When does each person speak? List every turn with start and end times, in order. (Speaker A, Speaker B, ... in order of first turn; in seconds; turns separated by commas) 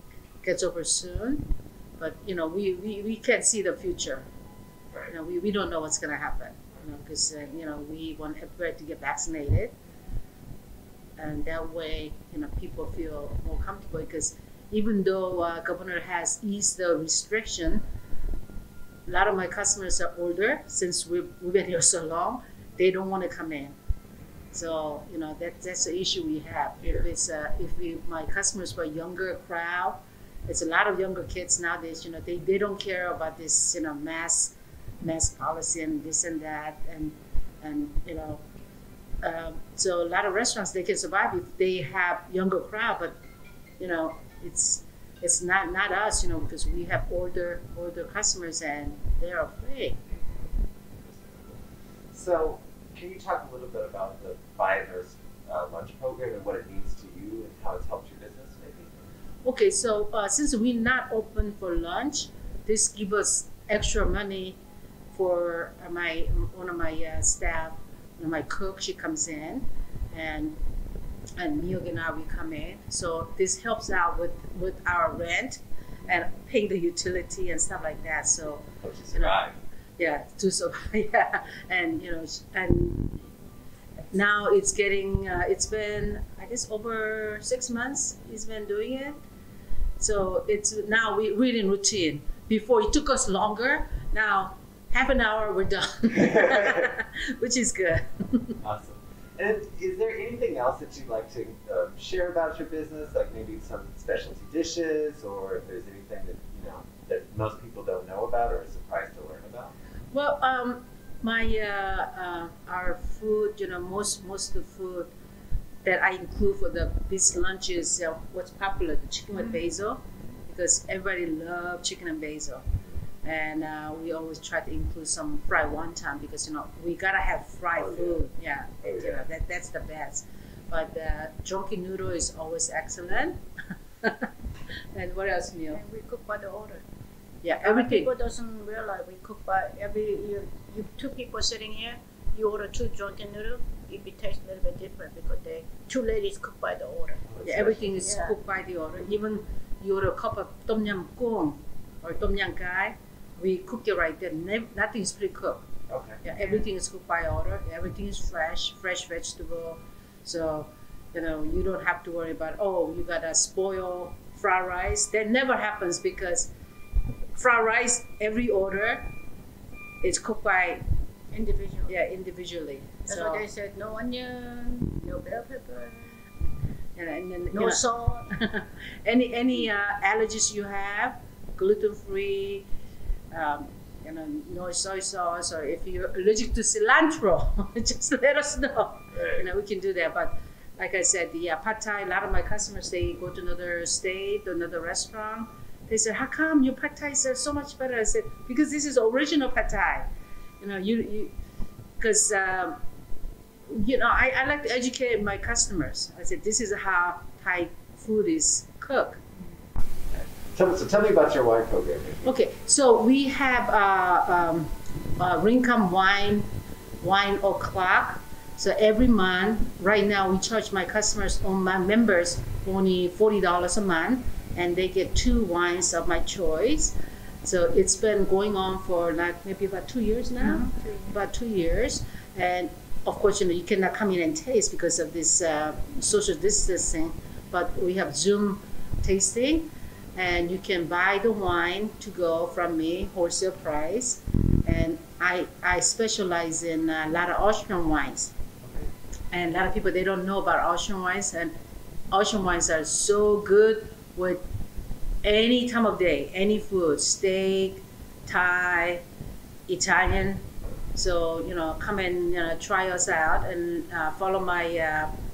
Speaker A: 0.4-1.4, Speaker A: 2.0-4.3, Speaker A: 5.1-9.8, Speaker A: 11.2-17.8, Speaker A: 19.1-23.8, Speaker A: 24.5-38.4, Speaker A: 39.2-43.1, Speaker A: 43.8-50.0, Speaker B: 50.1-51.6, Speaker B: 52.1-59.0, Speaker A: 59.4-64.6, Speaker A: 65.1-70.6, Speaker A: 71.4-79.4, Speaker B: 78.8-79.6, Speaker A: 80.0-83.2, Speaker A: 84.1-89.2, Speaker A: 90.0-98.6, Speaker B: 96.2-96.9, Speaker B: 98.6-109.7, Speaker A: 110.1-115.1, Speaker A: 115.8-122.7, Speaker A: 123.2-133.4, Speaker B: 127.8-128.3, Speaker B: 128.8-129.2, Speaker A: 134.0-134.3, Speaker A: 134.9-135.8, Speaker C: 135.7-136.8, Speaker A: 137.4-138.1, Speaker C: 137.6-147.2, Speaker B: 147.3-147.9, Speaker A: 147.4-155.7, Speaker C: 147.9-148.3, Speaker B: 155.9-156.2, Speaker A: 156.2-166.5, Speaker A: 167.3-169.1, Speaker A: 170.0-170.8, Speaker C: 171.3-171.9, Speaker A: 171.9-173.4, Speaker C: 173.1-176.2, Speaker A: 177.0-182.7, Speaker C: 177.5-178.3, Speaker A: 183.3-200.1, Speaker B: 189.1-189.5, Speaker A: 200.6-201.3, Speaker A: 202.0-202.8, Speaker A: 203.7-209.2, Speaker B: 210.1-212.3, Speaker A: 212.2-216.5, Speaker A: 217.0-248.3, Speaker C: 230.4-231.1, Speaker B: 248.6-248.9, Speaker A: 249.3-251.5, Speaker A: 252.1-254.4, Speaker A: 255.2-259.0, Speaker A: 259.7-265.1